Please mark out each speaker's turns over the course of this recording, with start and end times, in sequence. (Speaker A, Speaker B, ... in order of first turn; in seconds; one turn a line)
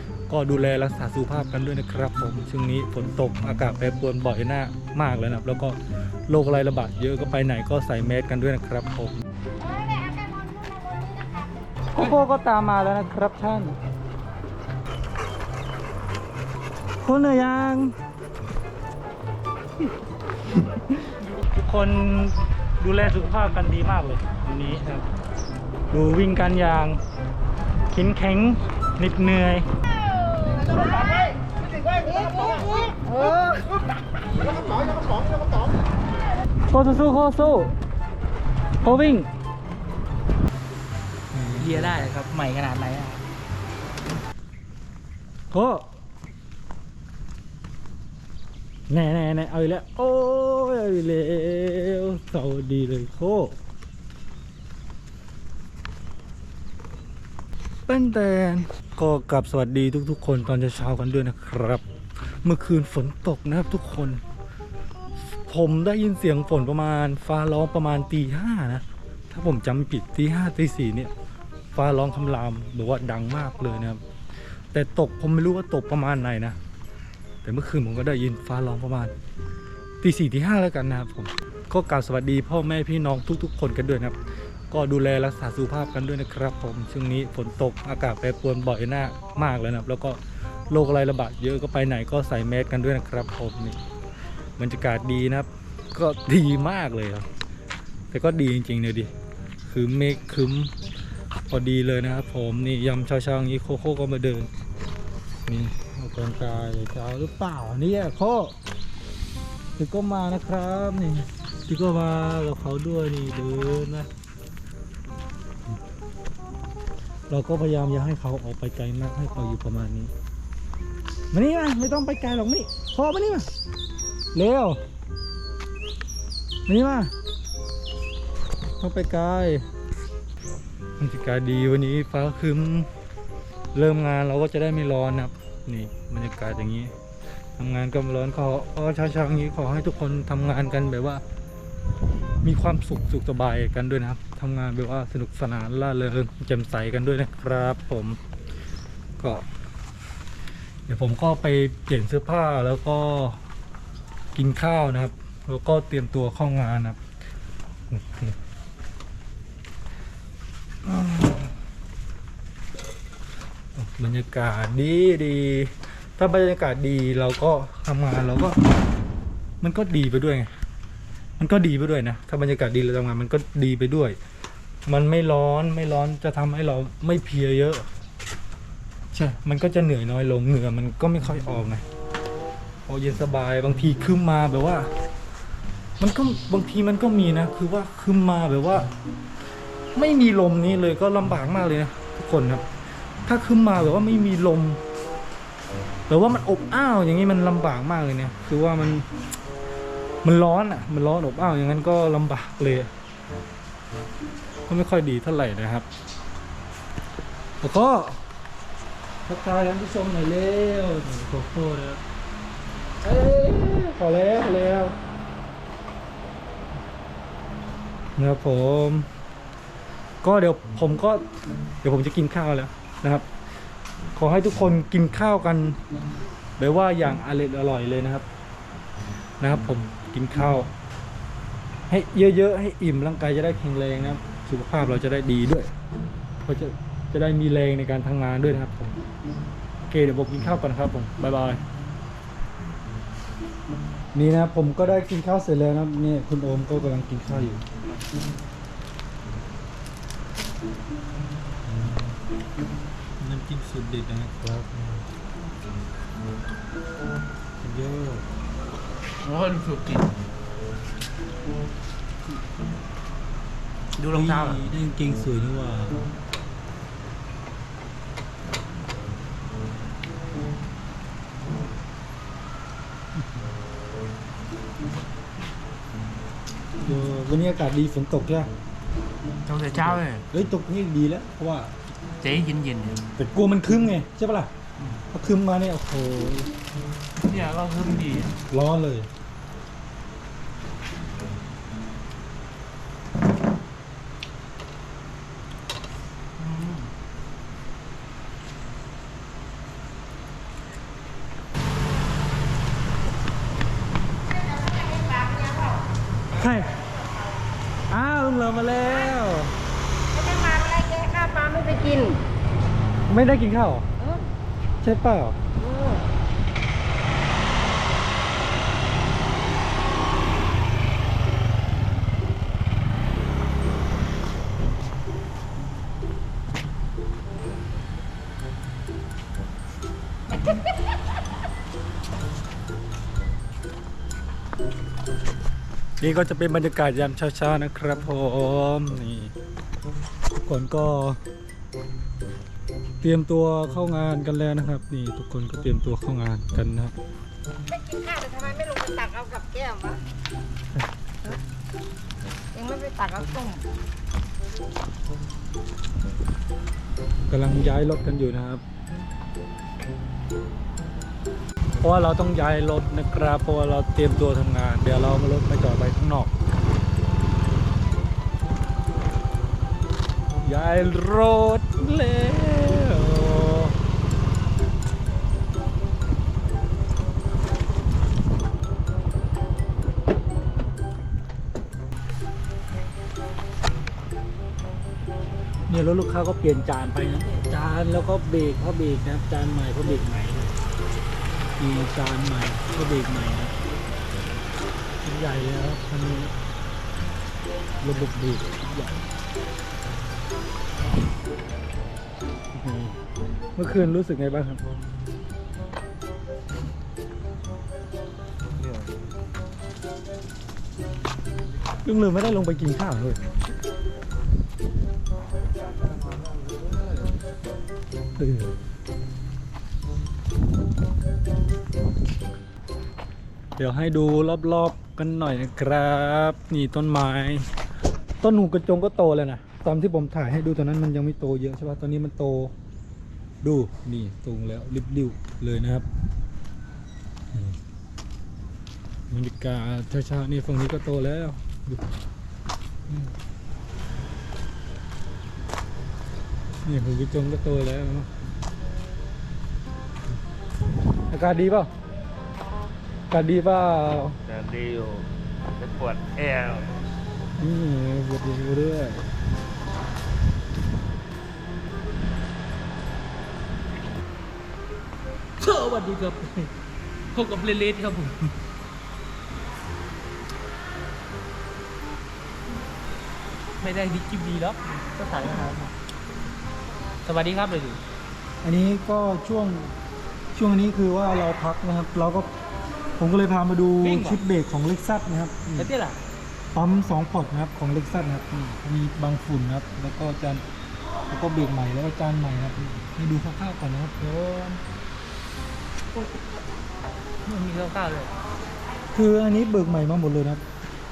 Speaker A: 0.3-9.2
Speaker A: 11.9-13.8
Speaker A: 17.0-17.9
Speaker A: 20.7-25.1
Speaker A: 25.9-27.0
Speaker A: 27.9-29.7
Speaker B: 30.9-31.2
Speaker B: 31.8-33.7
Speaker A: 36.7-37.7
Speaker A: 38.8-39.3
Speaker A: 41.3-42.0
Speaker C: 41.6-43.2
Speaker A: 45.5-45.9
Speaker A: 48.9-53.6
Speaker A: 57.9-61.8
Speaker A: 62.4-64.2
Speaker A: 65.5-71.1
Speaker A: 71.7-74.0
Speaker A: 74.7-76.6
Speaker A: 77.4-79.1
Speaker A: 80.0-84.2
Speaker A: 84.7-93.8
Speaker A: 94.6-97.3
Speaker A: 98.1-99.1
Speaker A: 99.7-100.7
Speaker A: 101.5-104.5
Speaker A: 105.5-108.5
Speaker A: 109.8-114.1
Speaker A: 117.3-120.1
Speaker A: 121.3-123.5
Speaker A: 124.3-124.8
Speaker A: 126.7-127.1
Speaker A: 128.8-129.6
Speaker A: 131.0-132.9
Speaker A: 133.7-136.9
Speaker A: 137.6-141.2
Speaker A: 142.4-148.2
Speaker A: 149.2-149.4
Speaker A: 150.9-153.4
Speaker A: 154.3-157.0
Speaker A: 157.9-158.3
Speaker A: 160.8-161.5
Speaker A: 163.7-168.6
Speaker A: 169.6-170.5
Speaker A: 171.4-174.2
Speaker A: 174.8-177.9
Speaker A: 179.1-181.8
Speaker A: 182.9-184.9
Speaker A: 186.0-188.9
Speaker A: 189.9-192.7
Speaker A: 193.2-194.8
Speaker A: 196.1-199.1
Speaker A: 200.2-202.9
Speaker A: 204.7-205.8
Speaker A: 207.6-208.2
Speaker A: 209.2-212.0
Speaker A: 213.0-215.0
Speaker A: 218.2-219.1
Speaker A: 220.2-221.2
Speaker A: 221.8-223.3
Speaker A: 224.2-225.8
Speaker A: 226.6-228.2
Speaker A: 229.4-230.7
Speaker A: 231.9-235.7
Speaker A: 236.4-238.9
Speaker A: 239.9-241.6
Speaker A: 244.1-247.6
Speaker A: 251.7-252.2
Speaker A: 253.2-255.1
Speaker A: 257.6-258.2
Speaker C: 259.2-260.1
Speaker C: 264.0-264.6
Speaker A: 264.1-266.0
Speaker A: 276.8-278.5
Speaker C: 279.5-280.2
Speaker A: 279.7-281.7
Speaker C: 282.2-283.1
Speaker A: 283.2-284.5
Speaker A: 285.1-286.5
Speaker C: 287.2-288.4
Speaker A: 288.5-289.1
Speaker C: 296.4-296.9
Speaker B: 304.5-305.8
Speaker A: 306.3-306.8
Speaker A: 307.9-309.5
Speaker B: 310.1-312.2
Speaker A: 313.1-313.9
Speaker A: 314.8-315.4
Speaker A: 336.0-339.3
Speaker A: 340.3-341.2
Speaker A: 343.0-346.9
Speaker B: 347.7-350.0
Speaker B: 352.5-353.6
Speaker A: 357.3-358.6
Speaker A: 361.8-366.3
Speaker A: 370.4-373.7
Speaker A: 385.7-390.5
Speaker A: 391.6-393.6
Speaker A: 395.0-396.3
Speaker A: 397.8-399.0
Speaker A: 402.5-403.0
Speaker A: 403.6-404.6
Speaker A: 411.8-413.2
Speaker A: 418.2-418.5
Speaker A: 423.6-427.5
Speaker A: 428.2-432.5
Speaker A: 433.4-435.9
Speaker A: 439.1-441.8
Speaker A: 442.9-443.1
Speaker A: 446.6-448.1
Speaker A: 451.1-451.7
Speaker A: 453.1-454.1
Speaker B: 454.3-456.7
Speaker A: 457.4-459.1
Speaker C: 465.4-466.5
Speaker C: 467.1-468.2
Speaker C: 473.6-475.7
Speaker C: 477.0-477.8
Speaker A: 478.4-479.7
Speaker A: 480.3-482.3
Speaker A: 483.0-485.7
Speaker C: 483.8-484.2
Speaker C: 485.6-486.0
Speaker A: 486.5-490.4
Speaker A: 491.1-494.6
Speaker C: 497.2-498.1
Speaker A: 498.9-500.4